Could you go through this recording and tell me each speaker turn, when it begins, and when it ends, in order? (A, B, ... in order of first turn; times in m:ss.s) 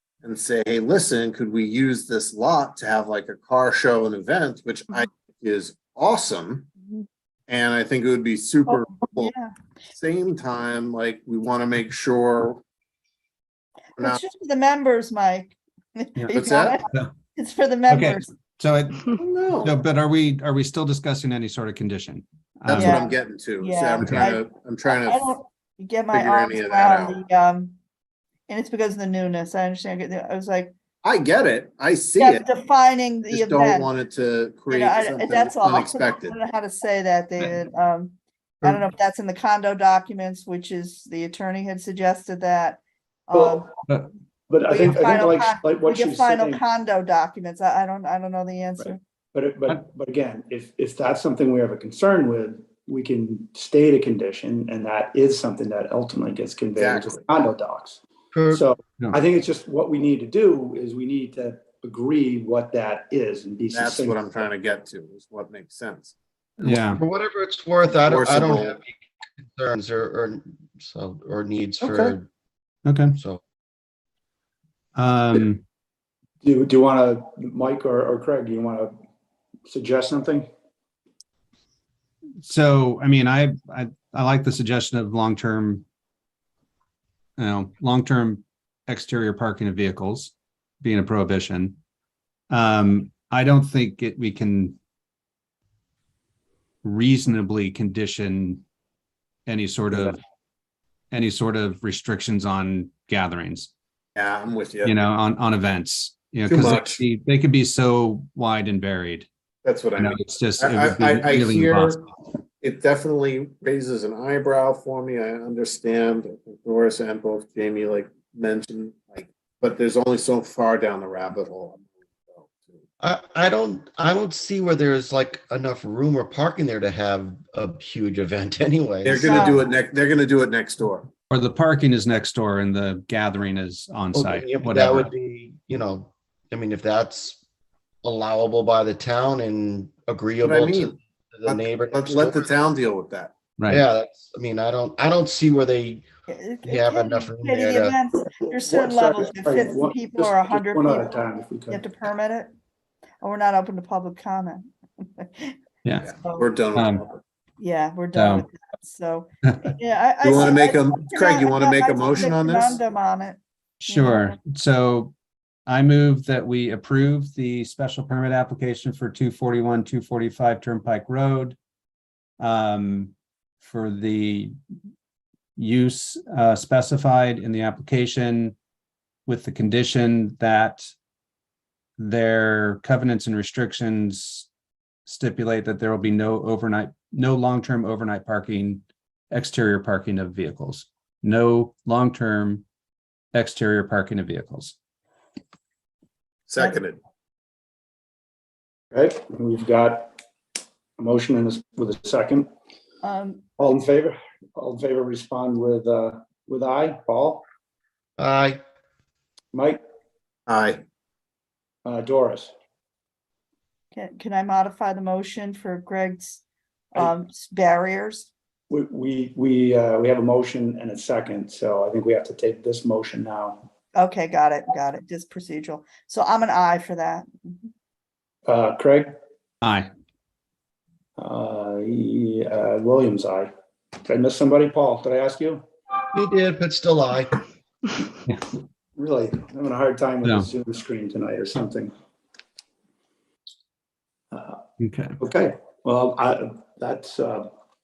0:00.2-0:06.7 A
0:07.5-0:09.3 A
0:08.7-0:09.6 B
0:09.9-0:12.6 A
0:14.0-0:18.3 B
0:16.3-0:16.8 A
0:17.9-0:23.1 C
0:19.1-0:19.8 A
0:22.7-0:25.3 A
0:22.7-0:27.8 B
0:24.0-0:24.3 C
0:26.1-0:27.2 A
0:28.5-0:30.8 B
0:31.0-0:32.4 A
0:32.2-0:33.9 B
0:33.3-0:36.4 A
0:34.7-0:43.7 B
0:43.3-0:43.6 D
0:44.5-0:46.6 D
0:44.6-0:49.0 B
0:48.8-0:58.0 D
0:56.8-0:57.3 A
0:58.3-0:58.6 E
0:58.5-1:04.4 D
1:03.7-1:06.1 A
1:06.6-1:07.0 C
1:06.6-1:12.3 E
1:08.0-1:08.8 A
1:11.8-1:12.2 A
1:12.8-1:13.2 C
1:13.2-1:13.4 E
1:15.0-1:15.6 C
1:16.4-1:18.9 D
1:19.7-1:20.5 D
1:22.4-1:25.8 C
1:27.4-1:31.8 C
1:32.5-1:34.8 C
1:36.8-1:38.6 C
1:39.5-1:40.2 C
1:41.1-1:43.7 C
1:44.2-1:45.0 A
1:44.8-1:49.3 C
1:46.5-1:47.0 A
1:49.6-1:52.0 A
1:50.0-1:52.0 C
1:52.6-2:02.8 A
2:03.0-2:09.6 E
2:09.0-2:11.1 A
2:09.2-2:09.7 B
2:11.3-2:15.1 C
2:14.1-2:17.4 E
2:18.0-2:22.5 E
2:20.4-2:23.3 A
2:23.6-2:23.8 C
2:23.7-2:26.1 E
2:26.3-2:32.5 B
2:26.6-2:28.0 E
2:28.5-2:31.8 D
2:33.2-2:35.6 B
2:36.0-2:37.2 A
2:36.1-2:36.5 B
2:36.7-2:37.0 C
2:37.6-2:44.4 B
2:38.2-2:38.5 C
2:39.5-2:39.7 C
2:40.2-2:42.8 A
2:43.8-2:45.1 C
2:45.7-2:51.6 C
2:52.4-2:54.6 C
2:55.6-2:58.6 C
2:59.3-3:00.9 C
3:02.0-3:04.5 C
3:05.1-3:12.6 C
3:13.3-3:14.8 C
3:16.5-3:17.0 A
3:18.9-3:20.1 D
3:21.0-3:22.5 D
3:23.0-3:23.5 B
3:23.6-3:27.4 D
3:28.2-3:28.6 E
3:29.5-3:29.8 D
3:30.5-3:30.8 A
3:31.8-3:32.5 D
3:33.9-3:36.4 B
3:36.9-3:38.3 B
3:38.7-3:43.6 D
3:44.0-3:47.7 B
3:48.5-3:49.1 D
3:49.6-3:49.9 C
3:51.2-3:53.5 D
3:54.0-3:55.6 D
3:56.1-3:57.4 E
3:59.0-4:01.9 D
4:00.2-4:00.5 C
4:04.3-4:04.6 D
4:04.8-4:05.1 C
4:05.2-4:07.5 D